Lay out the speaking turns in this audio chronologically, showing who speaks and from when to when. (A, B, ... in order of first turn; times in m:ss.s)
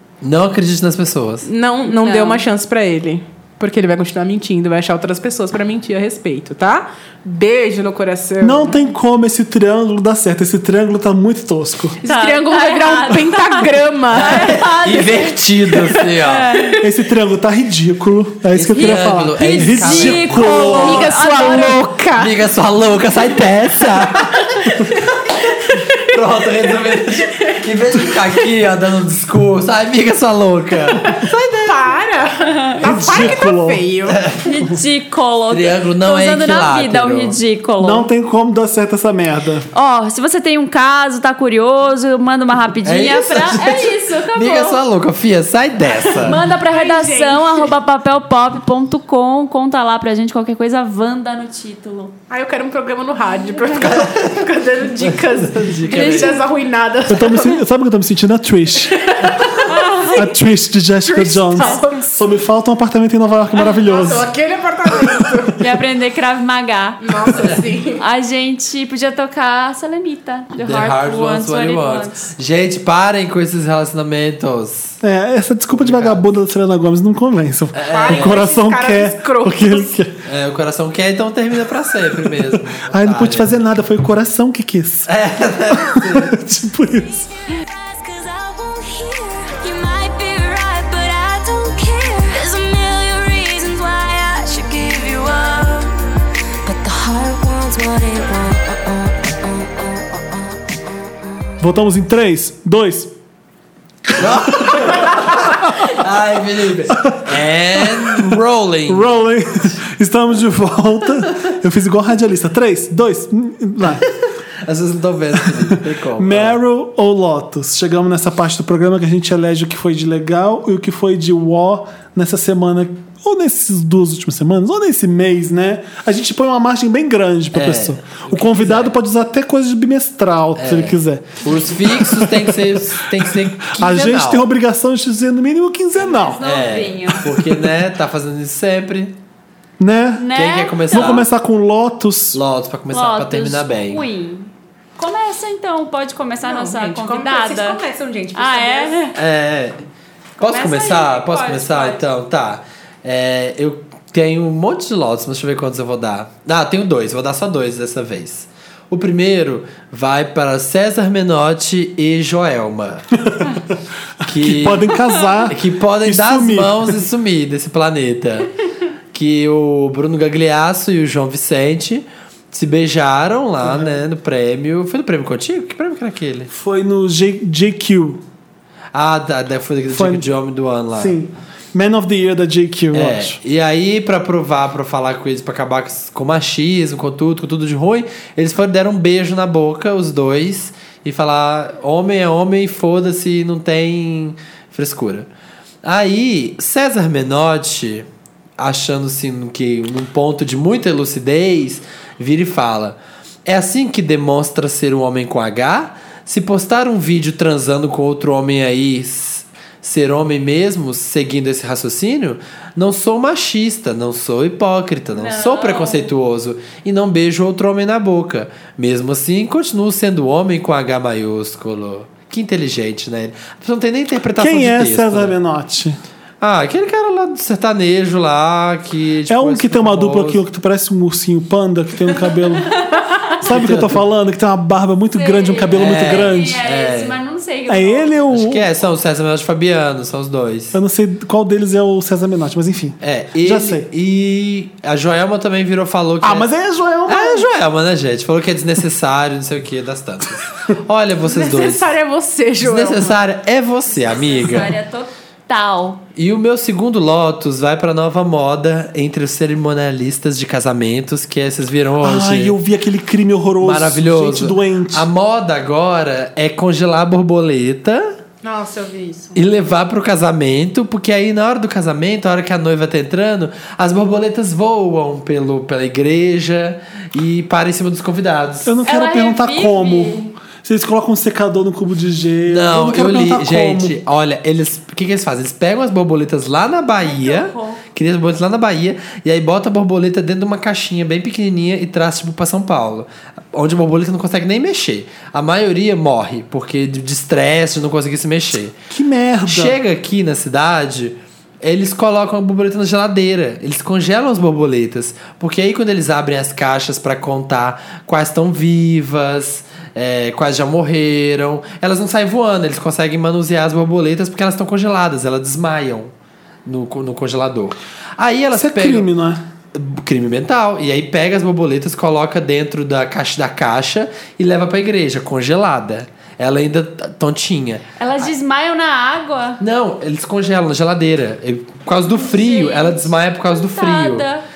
0:00.2-0:01.5 A
0:01.4-0:08.8 B
0:01.9-0:02.4 C
0:08.4-0:12.0 D
0:12.0-0:14.6 B
0:12.0-0:16.8 C
0:14.1-0:16.5 A
0:16.8-0:21.1 D
0:18.5-0:20.8 A
0:18.7-0:21.9 C
0:20.7-0:22.3 B
0:22.2-0:32.0 A
0:23.8-0:26.2 B
0:26.7-0:28.3 B
0:31.1-0:34.2 B
0:32.4-0:33.1 C
0:32.8-0:33.8 D
0:34.1-0:34.5 A
0:34.4-0:38.1 C
0:35.5-0:37.4 A
0:37.8-0:39.7 D
0:39.7-0:44.8 C
0:42.8-0:46.4 A
0:45.9-0:47.7 B
0:46.2-0:52.2 C
0:52.3-0:57.6 B
0:53.7-0:54.5 A
0:55.0-0:56.4 A
0:55.9-0:56.4 C
0:57.1-0:59.1 D
0:58.9-0:59.8 B
0:59.6-1:00.4 C
1:00.1-1:04.3 D
1:01.0-1:02.1 B
1:01.6-1:01.8 C
1:03.6-1:05.6 B
1:04.9-1:05.5 D
1:05.6-1:12.3 C
1:07.0-1:08.0 B
1:10.6-1:15.0 A
1:15.0-1:20.2 D
1:15.7-1:16.2 A
1:17.7-1:18.5 A
1:17.9-1:20.0 B
1:20.2-1:23.5 A
1:22.2-1:25.1 D
1:25.1-1:26.4 A
1:25.7-1:27.3 D
1:27.1-1:40.6 E
1:41.6-1:43.1 D
1:44.1-1:45.9 D
1:44.2-1:49.1 A
1:46.9-1:54.1 D
1:54.0-1:56.6 A
1:55.3-2:16.4 D
2:07.5-2:08.9 A
2:10.6-2:14.4 A
2:16.0-2:17.2 C
2:16.4-2:19.2 A
2:19.8-2:20.3 D
2:20.2-2:21.2 C
2:20.3-2:21.3 A
2:20.9-2:22.4 D
2:22.3-2:24.0 A
2:22.9-2:27.8 C
2:26.4-2:29.0 B
2:28.4-2:29.2 C
2:29.2-2:29.8 A
2:30.4-2:43.1 A
2:30.4-2:32.0 C
2:43.3-2:43.6 D
2:44.2-2:48.5 A
2:44.2-2:47.0 D
2:49.1-2:56.5 A
2:53.6-2:54.0 D
2:56.5-2:58.2 D
2:58.9-3:01.1 A
2:59.9-3:00.3 D
3:00.9-3:03.4 D
3:02.9-3:15.3 A
3:15.8-3:18.1 A
3:18.6-3:45.4 A
3:35.1-3:36.1 C
3:44.4-3:46.0 D
3:46.4-3:50.4 A
3:49.3-3:52.7 D
3:53.4-3:56.6 D
3:53.4-3:54.0 A
3:55.1-3:58.2 C
3:55.7-3:57.2 A
3:57.7-3:58.6 D
3:58.3-4:00.8 A
4:00.7-4:03.9 D
4:03.0-4:06.5 A
4:06.2-4:07.5 D
4:07.1-4:11.9 A
4:11.2-4:13.2 B
4:12.6-4:14.7 A
4:14.3-4:16.0 C
4:16.2-4:22.6 A
4:22.0-4:25.1 D
4:23.6-4:28.1 A
4:28.4-4:29.5 B
4:29.4-4:38.7 A
4:38.6-4:44.0 D
4:38.8-4:40.3 C
4:42.5-4:58.8 A
4:47.0-4:47.8 C
4:58.9-4:59.8 D
4:59.4-5:16.1 A
5:16.7-5:19.1 A
5:18.5-5:19.4 D
5:19.7-5:28.3 A
5:28.0-5:29.6 C
5:29.6-5:34.2 A
5:32.2-5:34.4 C